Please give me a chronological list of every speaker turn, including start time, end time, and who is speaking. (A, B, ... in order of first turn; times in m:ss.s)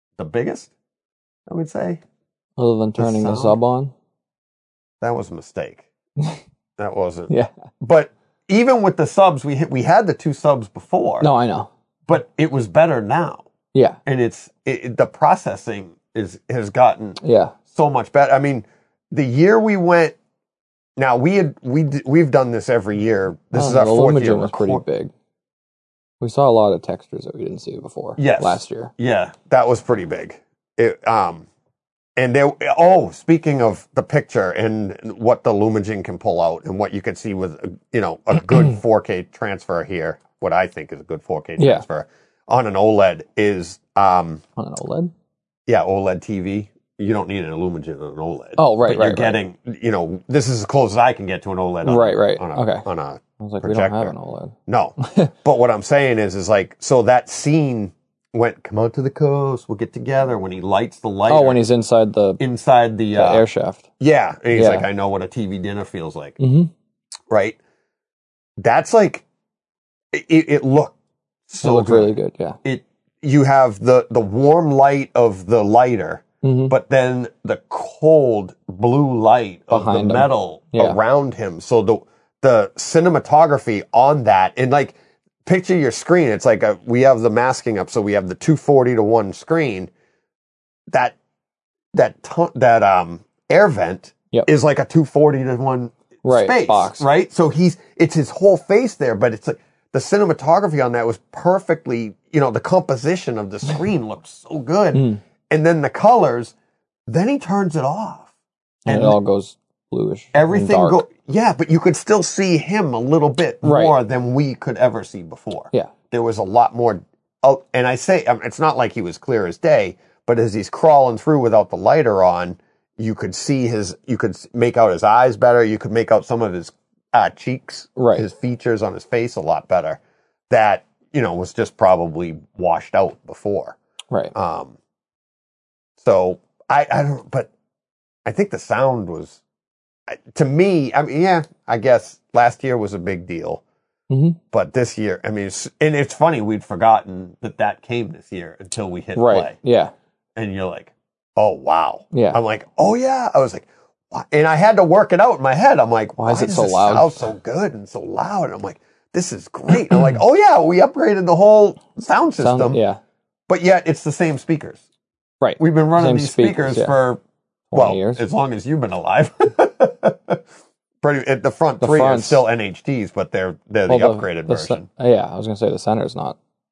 0:00.2-0:00.7 A
0:01.5-0:02.0 A
0:02.6-0:03.9 B
0:03.0-0:03.6 A
0:05.0-0:05.8 A
0:06.8-0:11.3 A
0:11.2-0:11.7 B
0:12.1-0:13.4 A
0:13.7-0:14.0 B
0:14.0-0:20.2 A
0:17.2-0:17.5 B
0:21.0-0:24.8 A
0:23.5-0:25.1 B
0:26.2-0:28.9 B
0:28.2-0:31.4 A
0:32.2-0:44.4 A
0:41.6-0:41.8 B
0:44.6-0:45.1 B
0:45.7-0:54.1 A
0:48.6-0:49.4 B
0:51.8-0:52.8 B
0:53.4-0:55.3 B
0:54.7-1:01.6 A
1:01.3-1:02.4 B
1:02.4-1:03.4 A
1:03.1-1:03.9 B
1:04.0-1:06.4 A
1:04.5-1:04.9 B
1:06.4-1:06.7 B
1:07.3-1:07.6 A
1:08.6-1:09.2 A
1:10.1-1:10.9 A
1:11.5-1:29.9 A
1:11.6-1:12.6 B
1:16.4-1:16.7 B
1:19.7-1:21.0 B
1:30.9-1:31.2 A
1:31.9-1:46.5 A
1:36.2-1:37.0 B
1:44.9-1:45.2 B
1:47.1-1:48.3 A
1:48.8-1:49.2 A
1:48.8-1:51.0 B
1:50.3-2:13.8 A
1:53.6-1:53.9 B
2:08.0-2:08.2 B
2:14.3-2:14.8 A
2:16.0-2:17.5 A
2:18.2-2:19.4 A
2:20.1-2:23.6 A
2:24.1-2:24.4 B
2:24.5-2:29.6 A
2:29.2-2:29.9 B
2:30.4-2:42.8 A
2:32.1-2:32.4 B
2:36.2-2:37.3 B
2:42.4-2:43.0 B
2:43.5-2:44.8 A
2:45.4-2:46.9 B
2:45.6-2:47.2 A
2:47.7-2:48.2 B
2:47.7-2:50.4 A
2:51.0-2:54.9 A
2:51.8-2:52.4 B
2:53.9-2:56.4 B